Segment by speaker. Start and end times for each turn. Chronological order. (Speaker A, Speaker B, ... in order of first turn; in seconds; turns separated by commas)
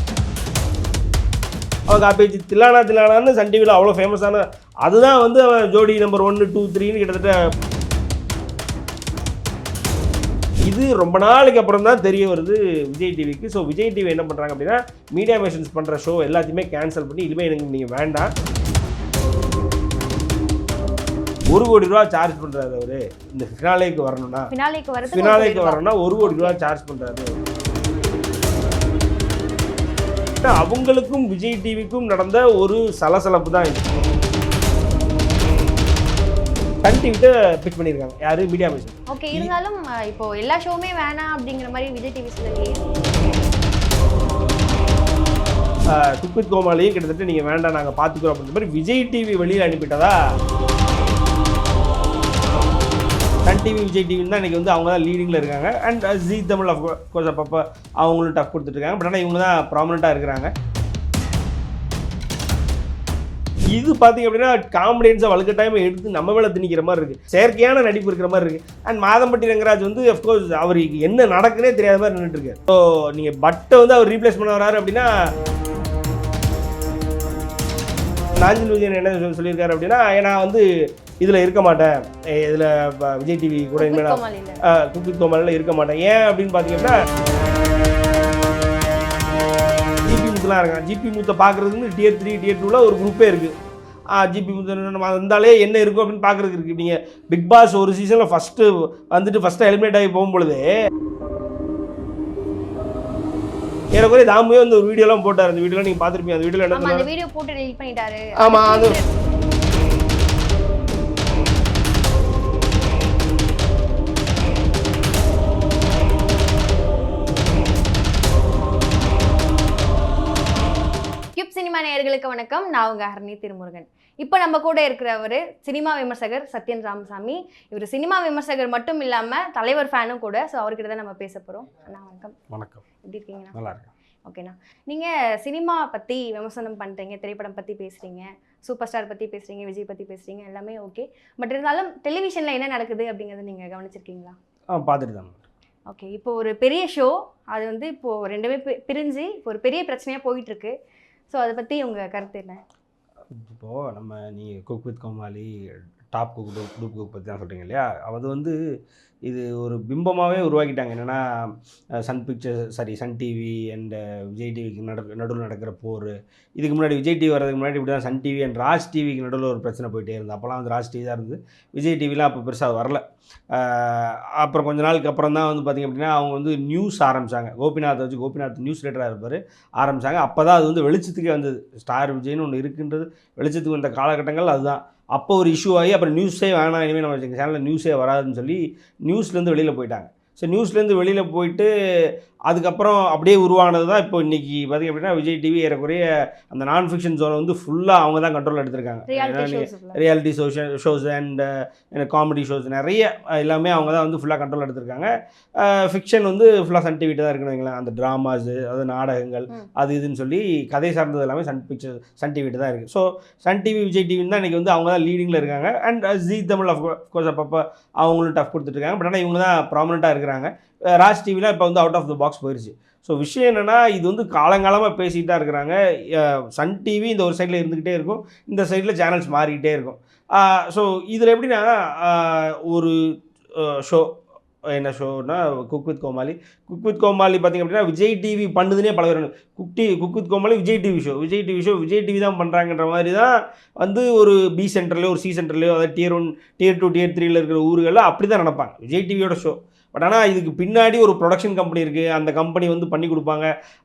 Speaker A: 1.9-7.4, Speaker A: 10.7-18.3, Speaker A: 21.5-24.5, Speaker B: 24.5-26.6, Speaker A: 25.1-27.3, Speaker A: 30.4-34.0, Speaker A: 36.8-39.5, Speaker B: 39.1-42.9, Speaker A: 45.9-50.2, Speaker A: 53.5-60.5, Speaker A: 63.7-75.1, Speaker A: 78.4-80.7, Speaker A: 81.2-87.0, Speaker B: 83.8-84.6, Speaker A: 90.0-93.5, Speaker A: 94.1-100.7, Speaker A: 103.9-107.0, Speaker B: 106.7-109.2, Speaker A: 108.4-109.0, Speaker B: 121.4-132.4, Speaker A: 132.5-132.8, Speaker B: 133.0-133.6, Speaker A: 133.5-133.9, Speaker B: 134.2-144.4, Speaker A: 144.7-145.4, Speaker B: 145.9-150.8, Speaker B: 151.3-152.6, Speaker A: 153.3-155.6, Speaker A: 156.1-158.6, Speaker A: 159.3-161.5, Speaker A: 162.0-233.0, Speaker B: 199.1-200.0, Speaker A: 233.6-234.2, Speaker A: 234.7-253.5